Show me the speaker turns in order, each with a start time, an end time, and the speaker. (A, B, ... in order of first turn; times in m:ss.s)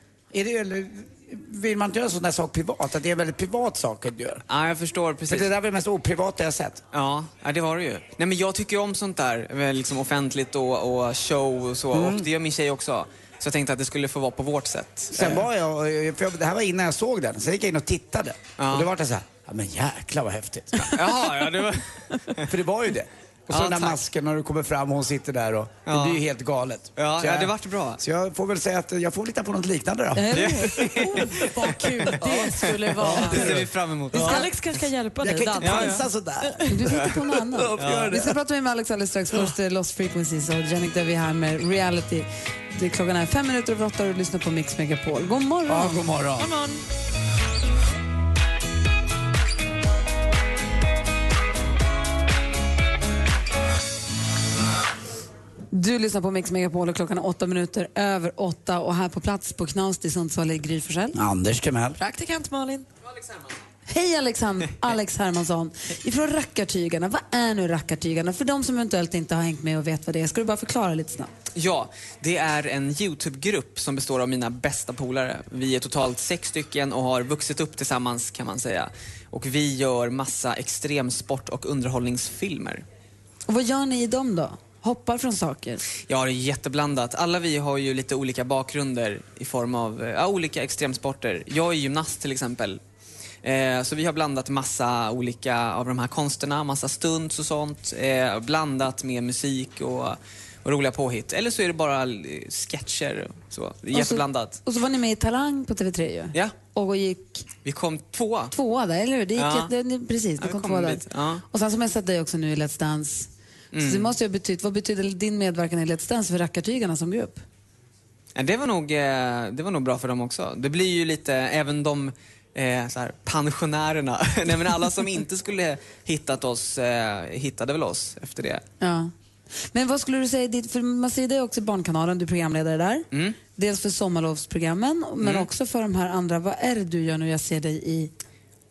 0:00.3-0:04.4 A
0:04.5-0:05.5 B
0:05.3-0:06.8 A
0:06.9-0:15.4 B
0:11.9-0:12.3 A
0:15.1-0:21.0 A
0:18.6-0:18.9 B
0:20.8-0:22.5 B
0:22.4-0:30.4 A
0:23.5-0:24.0 B
0:25.9-0:26.2 B
0:27.0-0:28.0 B
0:30.1-0:31.4 C
0:30.3-0:34.6 B
0:31.0-0:36.7 D
0:33.0-0:33.7 A
0:35.2-0:36.9 A
0:35.6-0:36.0 B
0:36.7-0:46.0 C
0:37.5-0:38.3 A
0:37.8-0:38.1 B
0:45.7-0:46.5 A
0:46.4-0:46.8 D
0:55.7-1:01.2 C
1:01.1-1:02.0 A
1:02.0-1:02.8 D
1:03.9-1:11.3 C
1:11.5-1:22.8 B
1:23.5-1:25.8 C
1:26.1-1:32.8 B
1:33.4-1:44.6 B
1:43.9-1:47.4 C
1:47.6-1:48.5 B
1:48.5-1:53.3 C
1:49.3-1:49.7 B
1:50.4-1:51.4 B
1:53.7-1:54.1 B
1:53.8-1:57.4 C
1:58.3-2:08.6 B
2:08.8-2:09.1 C
2:09.7-2:18.1 C
2:13.1-2:13.4 B
2:15.2-2:15.5 B